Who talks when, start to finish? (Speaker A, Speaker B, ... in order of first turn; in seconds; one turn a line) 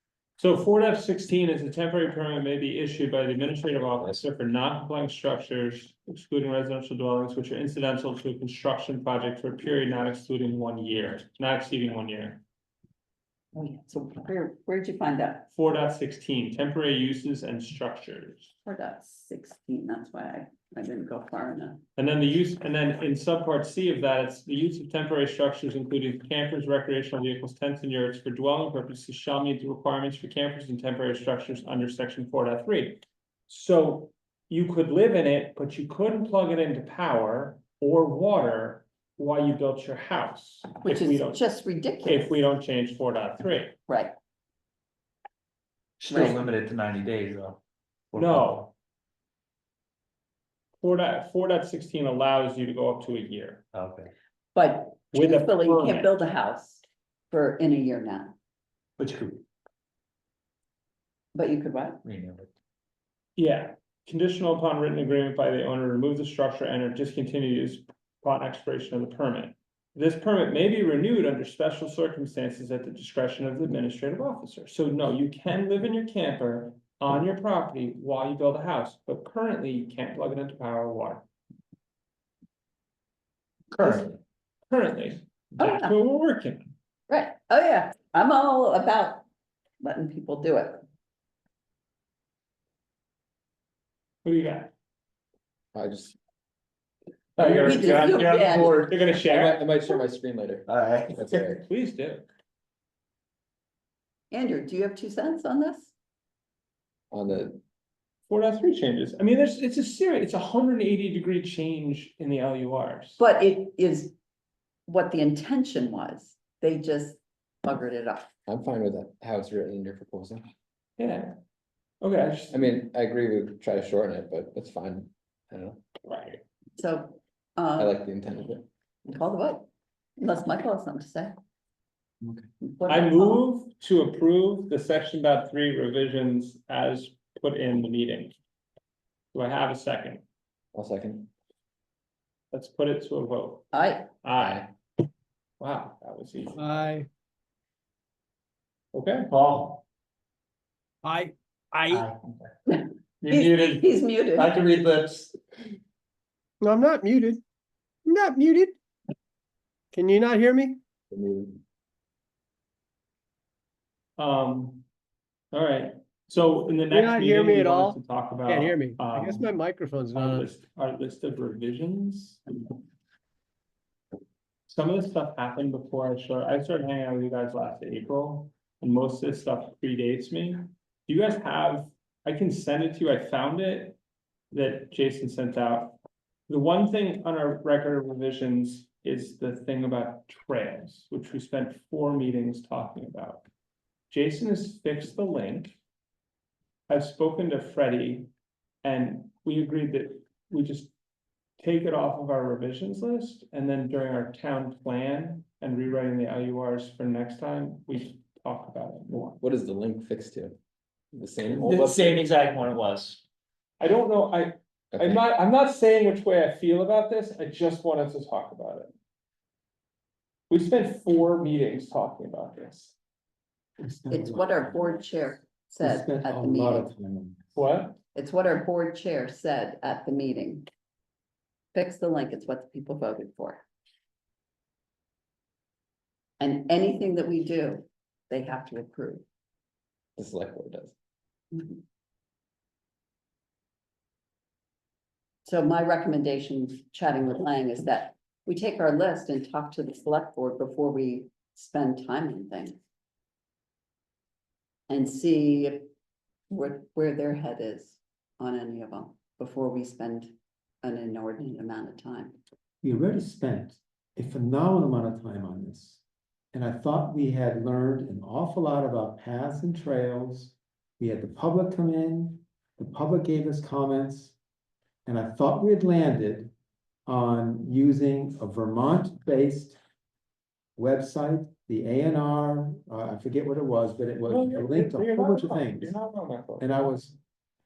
Speaker A: 0.4-12.4
Speaker B: 13.5-15.5
Speaker A: 15.5-18.5
Speaker B: 18.6-21.8
Speaker A: 21.9-41.4
Speaker B: 40.8-42.4
Speaker A: 42.0-43.8
Speaker B: 43.9-44.1
Speaker C: 46.0-47.6
Speaker B: 46.1-46.4
Speaker C: 48.1-48.7
Speaker A: 48.1-48.7
Speaker A: 50.8-53.6
Speaker C: 53.7-54.1
Speaker B: 54.5-58.3
Speaker A: 55.1-56.1
Speaker C: 59.0-59.4
Speaker B: 61.3-62.0
Speaker C: 62.0-62.5
Speaker A: 63.4-81.2
Speaker A: 83.8-84.2
Speaker A: 84.7-86.6
Speaker B: 85.6-86.0
Speaker B: 87.1-89.3
Speaker B: 89.8-90.8
Speaker A: 94.2-94.7
Speaker D: 95.7-96.2
Speaker A: 97.4-99.6
Speaker D: 97.4-97.8
Speaker C: 97.4-98.9
Speaker B: 97.6-98.8
Speaker D: 99.2-101.6
Speaker C: 100.7-101.5
Speaker A: 101.7-102.3
Speaker B: 104.3-105.9
Speaker D: 107.1-107.6
Speaker A: 108.3-113.2
Speaker B: 113.2-114.1
Speaker B: 114.9-118.3
Speaker D: 118.5-120.4
Speaker A: 121.0-121.3
Speaker A: 122.0-122.6
Speaker D: 122.5-125.8
Speaker A: 126.0-126.4
Speaker B: 126.8-128.1
Speaker D: 127.8-128.7
Speaker B: 129.1-131.3
Speaker B: 132.6-133.4
Speaker A: 132.9-138.3
Speaker A: 139.3-140.2
Speaker D: 140.7-141.3
Speaker A: 142.5-144.7
Speaker B: 143.7-144.1
Speaker A: 145.6-146.9
Speaker E: 146.6-147.1
Speaker A: 148.9-149.3
Speaker C: 149.3-149.8
Speaker E: 151.0-152.1
Speaker B: 152.7-154.6
Speaker C: 153.2-153.8
Speaker C: 154.3-155.3
Speaker E: 156.6-157.4
Speaker E: 158.1-158.8
Speaker E: 159.9-160.8
Speaker D: 161.1-161.6
Speaker A: 164.2-164.8
Speaker A: 165.5-169.5
Speaker E: 166.9-170.5
Speaker A: 170.1-172.4
Speaker A: 174.7-184.0
Speaker A: 184.5-186.0
Speaker A: 186.5-193.5
Speaker A: 194.1-195.8
Speaker A: 196.9-198.3
Speaker A: 198.8-200.9
Speaker A: 201.6-209.4
Speaker D: 209.4-210.6
Speaker D: 211.1-212.2
Speaker C: 211.5-213.2
Speaker A: 213.8-218.9
Speaker D: 214.9-215.2
Speaker A: 220.5-223.0
Speaker F: 223.8-225.0
Speaker B: 224.1-226.9
Speaker F: 225.8-227.4
Speaker A: 227.6-228.0
Speaker B: 228.2-230.7
Speaker B: 231.7-233.6
Speaker B: 236.4-239.2
Speaker D: 240.2-240.9
Speaker B: 241.5-241.8
Speaker B: 245.5-252.8
Speaker B: 254.9-255.9
Speaker B: 256.5-262.4
Speaker F: 262.8-266.0
Speaker F: 266.5-274.3
Speaker F: 275.0-276.5
Speaker F: 277.1-279.8
Speaker F: 280.8-286.0
Speaker A: 284.3-286.7
Speaker F: 286.6-287.1